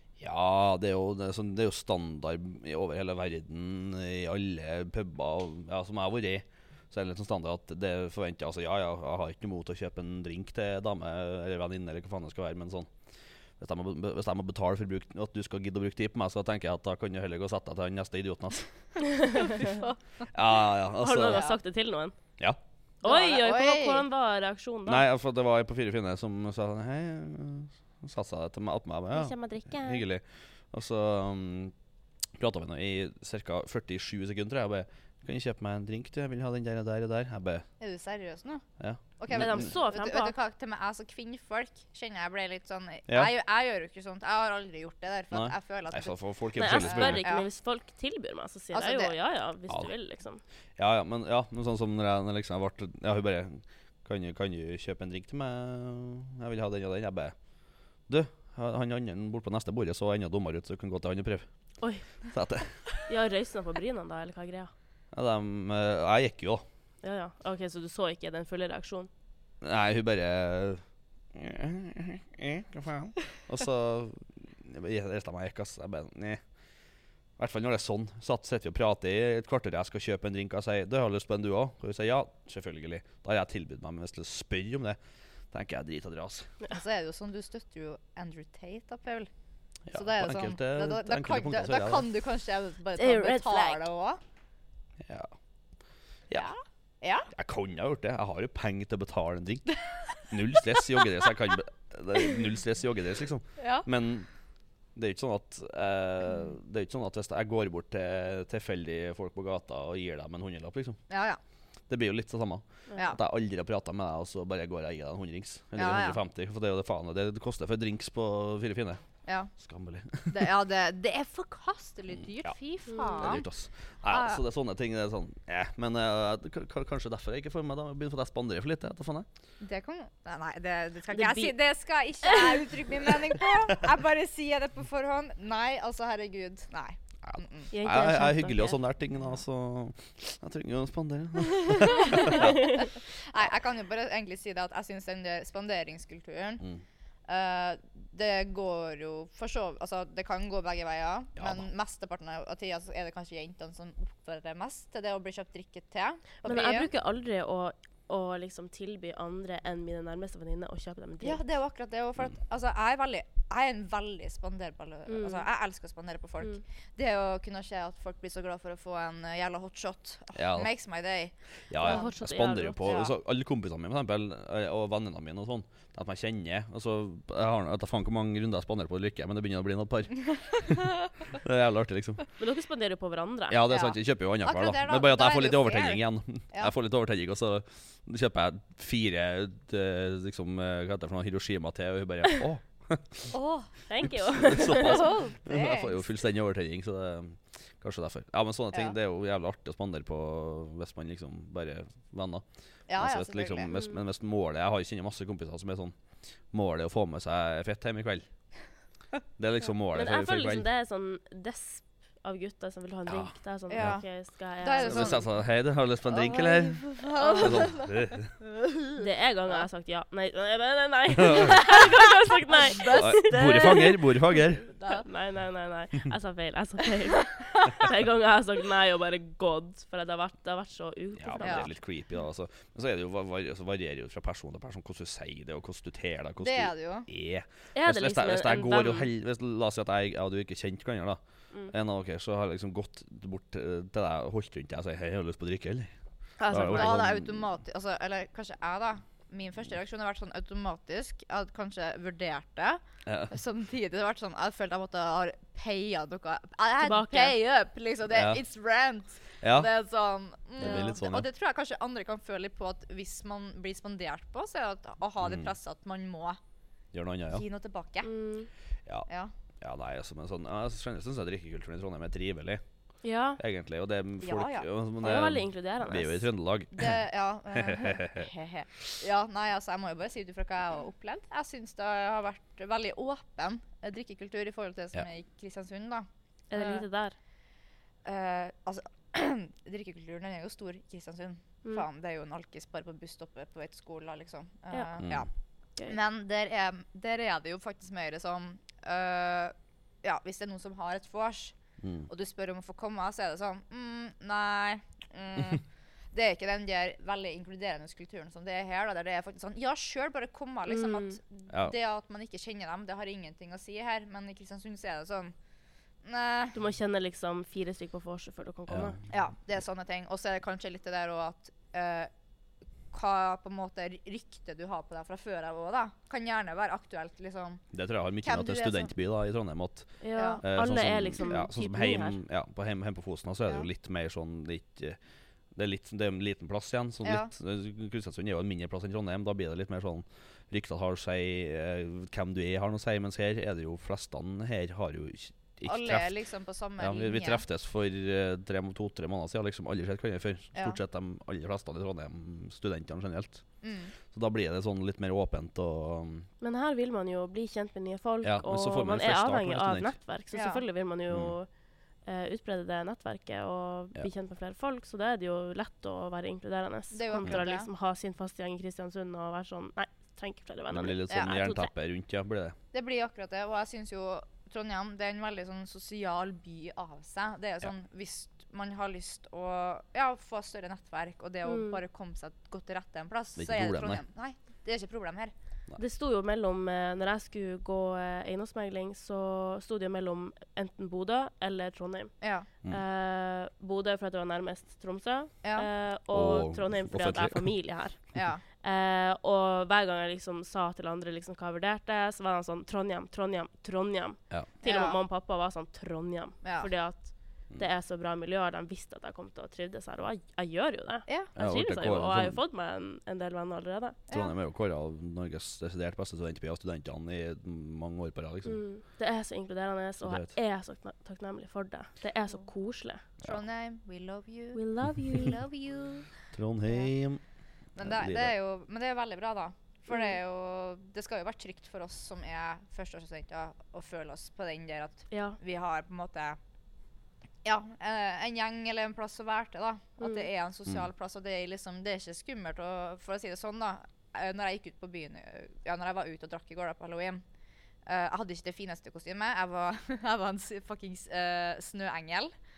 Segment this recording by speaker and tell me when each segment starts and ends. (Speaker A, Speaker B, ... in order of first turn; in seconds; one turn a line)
Speaker A: 0.2-12.9
Speaker A: 13.6-18.7
Speaker B: 19.2-19.6
Speaker C: 19.5-19.9
Speaker A: 20.3-21.4
Speaker B: 21.0-22.1
Speaker C: 21.2-21.6
Speaker C: 23.0-24.0
Speaker B: 23.0-25.0
Speaker A: 24.9-31.7
Speaker B: 29.1-30.0
Speaker A: 32.4-37.6
Speaker C: 37.8-38.6
Speaker A: 38.8-39.7
Speaker C: 39.2-47.5
Speaker B: 39.3-40.4
Speaker A: 45.3-47.2
Speaker B: 46.6-50.4
Speaker C: 48.7-49.1
Speaker A: 50.8-57.3
Speaker A: 58.1-61.5
Speaker A: 62.3-62.7
Speaker B: 63.0-64.7
Speaker A: 65.1-66.6
Speaker B: 67.0-69.1
Speaker A: 69.6-70.8
Speaker A: 71.3-76.4
Speaker A: 77.4-85.0
Speaker A: 85.5-86.5
Speaker C: 86.7-89.3
Speaker A: 89.9-92.1
Speaker C: 89.9-94.2
Speaker B: 93.0-93.8
Speaker A: 95.0-95.3
Speaker C: 96.3-97.3
Speaker A: 97.3-104.3
Speaker C: 103.6-103.9
Speaker A: 105.0-111.0
Speaker C: 111.1-111.4
Speaker A: 111.9-119.0
Speaker C: 115.8-116.2
Speaker C: 119.2-119.5
Speaker A: 119.6-120.5
Speaker C: 120.3-123.4
Speaker B: 122.9-123.3
Speaker A: 123.2-129.2
Speaker C: 124.1-124.4
Speaker C: 129.6-137.7
Speaker B: 131.1-131.5
Speaker B: 132.2-132.7
Speaker A: 137.2-142.5
Speaker B: 137.7-138.8
Speaker C: 141.7-146.6
Speaker B: 142.2-142.5
Speaker C: 147.3-156.9
Speaker A: 151.3-151.7
Speaker B: 156.4-161.4
Speaker C: 161.2-172.1
Speaker B: 165.1-165.4
Speaker A: 170.3-170.7
Speaker A: 171.7-182.2
Speaker B: 171.8-172.8
Speaker C: 172.8-173.1
Speaker B: 182.4-183.6
Speaker A: 183.5-193.3
Speaker C: 183.7-186.7
Speaker C: 193.3-193.7
Speaker B: 193.9-195.2
Speaker A: 194.1-205.9
Speaker C: 194.6-196.0
Speaker C: 202.9-203.7
Speaker A: 206.5-208.3
Speaker A: 209.4-210.7
Speaker B: 209.9-215.2
Speaker A: 213.1-214.0
Speaker C: 213.7-214.1
Speaker C: 214.6-215.2
Speaker A: 214.8-218.3
Speaker C: 216.1-217.9
Speaker B: 217.1-217.7
Speaker C: 218.4-219.6
Speaker B: 219.0-224.0
Speaker A: 221.2-221.6
Speaker C: 221.6-223.9
Speaker A: 222.9-224.6
Speaker C: 224.7-225.0
Speaker B: 224.9-231.7
Speaker C: 227.2-227.8
Speaker A: 231.2-241.2
Speaker C: 231.4-231.7
Speaker C: 236.4-237.1
Speaker B: 237.7-239.1
Speaker A: 241.7-245.9
Speaker B: 246.4-247.0
Speaker C: 246.4-266.4
Speaker A: 246.5-247.5
Speaker A: 253.1-253.3
Speaker B: 256.8-257.4
Speaker A: 258.1-258.4
Speaker A: 259.4-259.7
Speaker A: 260.6-261.3
Speaker B: 260.6-260.9
Speaker A: 265.2-265.5
Speaker A: 266.9-267.4
Speaker C: 267.3-268.1
Speaker B: 268.0-268.5
Speaker A: 269.6-272.6
Speaker B: 273.0-273.4
Speaker A: 273.4-277.0
Speaker C: 274.2-274.7
Speaker B: 275.0-276.3
Speaker C: 276.8-286.8
Speaker A: 277.5-278.3
Speaker B: 286.5-287.1
Speaker C: 288.0-295.3
Speaker A: 295.0-295.3
Speaker C: 295.8-301.6
Speaker A: 301.8-302.1
Speaker C: 302.1-315.3
Speaker B: 310.7-311.2
Speaker C: 316.0-316.6
Speaker B: 316.5-319.0
Speaker A: 318.7-319.0
Speaker C: 319.1-322.1
Speaker C: 322.9-327.6
Speaker A: 327.7-335.0
Speaker C: 328.2-328.9
Speaker B: 330.0-332.2
Speaker C: 330.1-330.4
Speaker A: 335.5-346.1
Speaker C: 337.0-337.3
Speaker C: 345.6-347.4
Speaker A: 346.8-353.4
Speaker C: 350.5-350.8
Speaker C: 353.6-353.9
Speaker A: 354.1-356.3
Speaker B: 356.4-361.5
Speaker A: 358.2-359.9
Speaker C: 360.3-360.6
Speaker A: 361.1-361.3
Speaker B: 362.1-371.7
Speaker C: 366.9-367.7
Speaker A: 370.7-372.6
Speaker C: 372.7-385.3
Speaker B: 381.4-381.8
Speaker A: 383.4-384.0
Speaker B: 385.8-392.1
Speaker C: 392.2-392.5
Speaker B: 392.7-398.0
Speaker C: 395.4-395.7
Speaker A: 396.1-397.5
Speaker C: 398.1-398.4
Speaker B: 398.6-414.0
Speaker C: 404.6-405.0
Speaker C: 406.4-406.7
Speaker A: 411.4-412.4
Speaker C: 414.1-414.3
Speaker A: 414.1-418.6
Speaker B: 418.4-423.0
Speaker A: 420.0-420.3
Speaker C: 423.2-426.1
Speaker B: 424.5-425.4
Speaker A: 426.3-427.2
Speaker C: 427.8-436.4
Speaker A: 427.8-428.3
Speaker B: 435.1-435.4
Speaker C: 437.4-447.2
Speaker B: 440.0-440.3
Speaker C: 447.9-452.3